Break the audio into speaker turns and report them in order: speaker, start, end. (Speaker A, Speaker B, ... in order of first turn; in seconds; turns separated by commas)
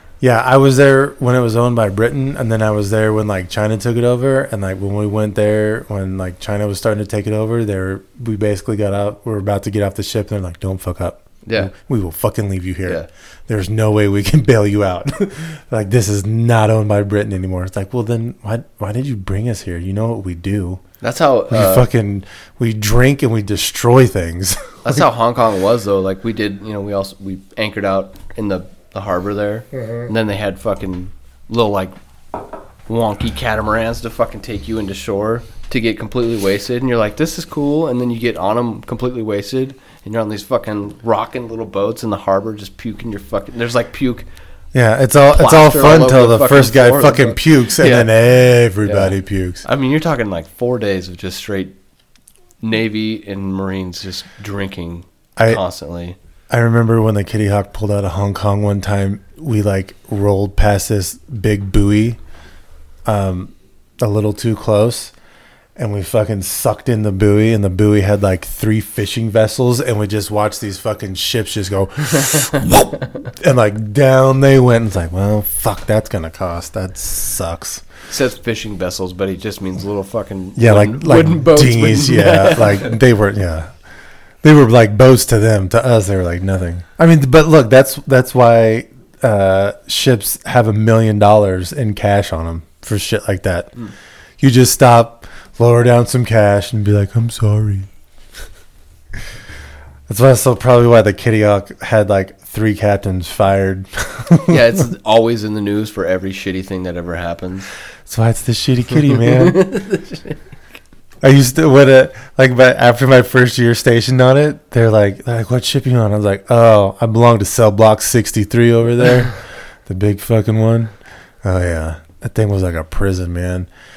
Speaker A: 0.2-20.8, Speaker B: 11.4-11.7, Speaker B: 21.0-21.9, Speaker A: 21.5-25.0, Speaker B: 24.8-31.9, Speaker B: 32.9-44.3, Speaker A: 44.7-49.6, Speaker B: 45.3-48.1, Speaker B: 48.8-51.7, Speaker B: 52.6-56.2, Speaker A: 56.5-62.2, Speaker A: 63.0-65.1, Speaker A: 65.8-77.8, Speaker B: 78.1-83.0, Speaker A: 80.5-83.7, Speaker A: 84.4-93.8, Speaker A: 94.4-97.9, Speaker A: 100.1-104.8, Speaker B: 104.5-107.7, Speaker A: 108.1-109.8, Speaker B: 109.3-110.4, Speaker A: 111.2-119.3, Speaker A: 119.8-123.7